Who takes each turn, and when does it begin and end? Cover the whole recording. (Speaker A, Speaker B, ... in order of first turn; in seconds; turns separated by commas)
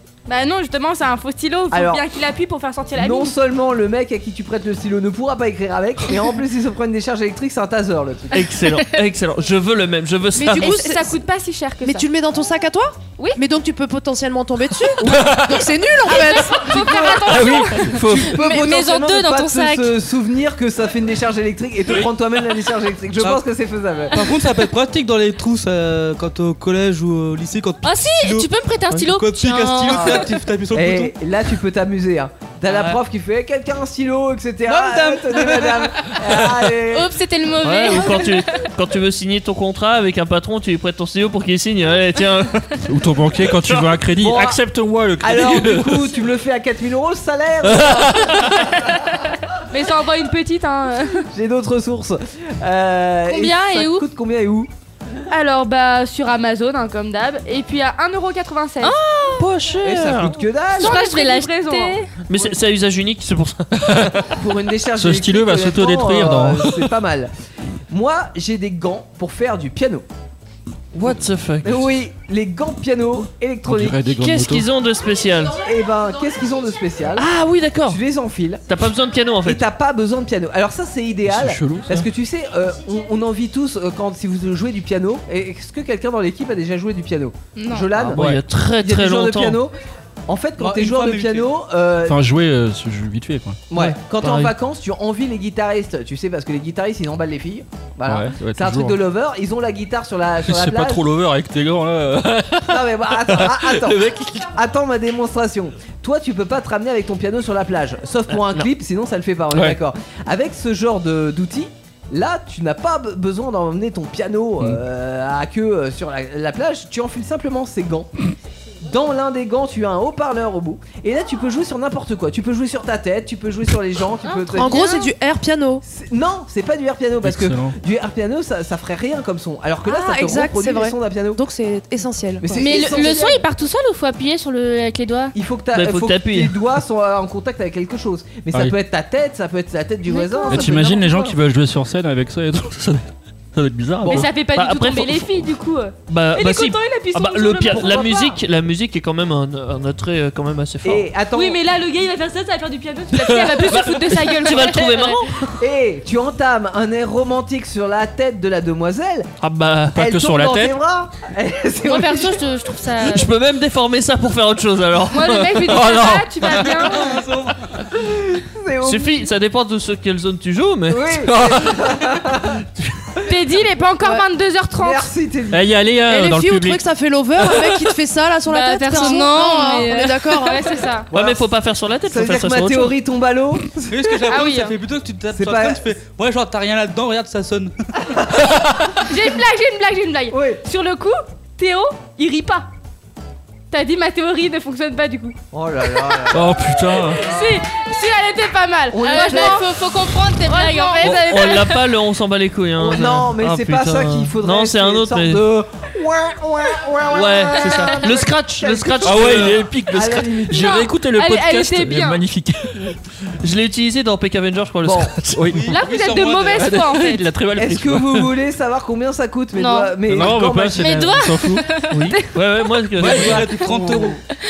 Speaker A: 0.3-3.4, Speaker B: 1.7-2.0, Speaker B: 3.0-8.5, Speaker C: 8.3-10.8, Speaker D: 10.3-11.2, Speaker A: 10.5-12.1, Speaker D: 11.8-16.8, Speaker A: 13.1-13.4, Speaker B: 15.0-15.4, Speaker E: 15.0-15.7, Speaker F: 16.2-19.9, Speaker A: 16.3-17.2, Speaker B: 16.3-24.3, Speaker E: 17.3-18.4, Speaker G: 24.1-31.1, Speaker F: 27.8-30.3, Speaker B: 29.9-37.1, Speaker C: 32.7-33.0, Speaker G: 34.7-35.9, Speaker F: 36.9-38.5, Speaker C: 37.6-42.9, Speaker E: 42.9-46.1, Speaker C: 43.4-43.9, Speaker B: 44.2-44.6, Speaker B: 45.2-48.6, Speaker E: 47.7-48.7, Speaker A: 49.7-51.3, Speaker B: 51.3-54.7, Speaker F: 53.3-54.1, Speaker A: 55.3-59.0, Speaker F: 58.8-59.5, Speaker C: 59.4-60.4, Speaker B: 59.8-61.0, Speaker A: 60.7-62.1, Speaker F: 60.8-62.1, Speaker C: 62.3-64.3, Speaker B: 64.3-67.3, Speaker E: 65.0-66.8, Speaker B: 67.9-70.0, Speaker C: 70.9-71.9, Speaker B: 71.6-74.0, Speaker E: 73.7-74.7, Speaker C: 74.1-75.6, Speaker B: 75.6-77.3, Speaker C: 77.2-78.0, Speaker B: 77.9-78.7, Speaker C: 78.7-79.7, Speaker B: 79.4-88.2, Speaker E: 81.3-82.1, Speaker F: 87.6-87.9, Speaker C: 88.1-89.6, Speaker E: 88.1-88.4, Speaker B: 88.8-89.8, Speaker B: 90.3-92.2, Speaker G: 90.6-91.5, Speaker E: 92.1-93.6, Speaker B: 93.7-101.0, Speaker C: 93.8-94.5, Speaker E: 98.0-99.0, Speaker E: 100.5-104.5, Speaker B: 102.7-118.1, Speaker C: 108.3-108.7, Speaker B: 118.8-124.9, Speaker F: 124.2-125.1, Speaker D: 124.5-125.8, Speaker B: 125.8-131.4, Speaker E: 127.2-127.7, Speaker D: 129.8-132.8, Speaker B: 132.4-133.4, Speaker F: 132.6-135.3, Speaker B: 135.3-141.4, Speaker C: 135.7-136.6, Speaker E: 140.5-144.3, Speaker B: 144.0-144.3, Speaker A: 144.1-148.3, Speaker C: 144.4-145.5, Speaker C: 146.1-151.1, Speaker B: 147.7-148.3, Speaker B: 150.8-151.6, Speaker A: 151.3-155.1, Speaker C: 153.2-155.6, Speaker B: 155.6-159.3, Speaker C: 159.4-160.0, Speaker E: 159.9-160.7, Speaker B: 159.9-162.4, Speaker F: 161.8-163.3, Speaker C: 163.0-165.9, Speaker A: 165.1-167.2, Speaker E: 165.7-166.8, Speaker G: 167.0-167.6, Speaker B: 168.0-169.2, Speaker C: 168.8-171.3, Speaker B: 170.9-172.6, Speaker E: 171.3-171.9, Speaker A: 173.3-175.1, Speaker B: 174.8-175.7, Speaker E: 175.5-176.8, Speaker D: 176.1-180.9, Speaker E: 177.4-177.9, Speaker F: 178.5-180.8, Speaker A: 180.4-181.1, Speaker B: 181.1-181.5, Speaker C: 181.1-182.9, Speaker B: 182.1-184.2, Speaker G: 183.9-187.7, Speaker A: 184.3-184.8, Speaker B: 185.3-185.9, Speaker B: 188.0-188.5, Speaker A: 189.1-192.7, Speaker B: 190.3-190.6, Speaker A: 193.7-195.4, Speaker B: 195.5-196.7, Speaker E: 196.3-197.2, Speaker A: 196.9-199.7, Speaker B: 197.2-197.6, Speaker B: 198.9-199.6, Speaker F: 199.0-201.7, Speaker A: 200.4-201.8, Speaker C: 201.0-205.5, Speaker B: 202.8-210.9, Speaker C: 207.1-209.7, Speaker E: 209.0-212.9, Speaker A: 210.5-212.2, Speaker C: 213.4-215.5, Speaker B: 214.8-215.2, Speaker E: 215.3-215.7, Speaker G: 215.5-216.8, Speaker A: 215.7-217.3, Speaker E: 216.6-218.3, Speaker B: 217.6-221.2, Speaker F: 219.6-219.9, Speaker E: 220.1-221.8, Speaker F: 220.8-222.2, Speaker C: 221.9-223.5, Speaker G: 223.0-224.2, Speaker B: 223.0-224.2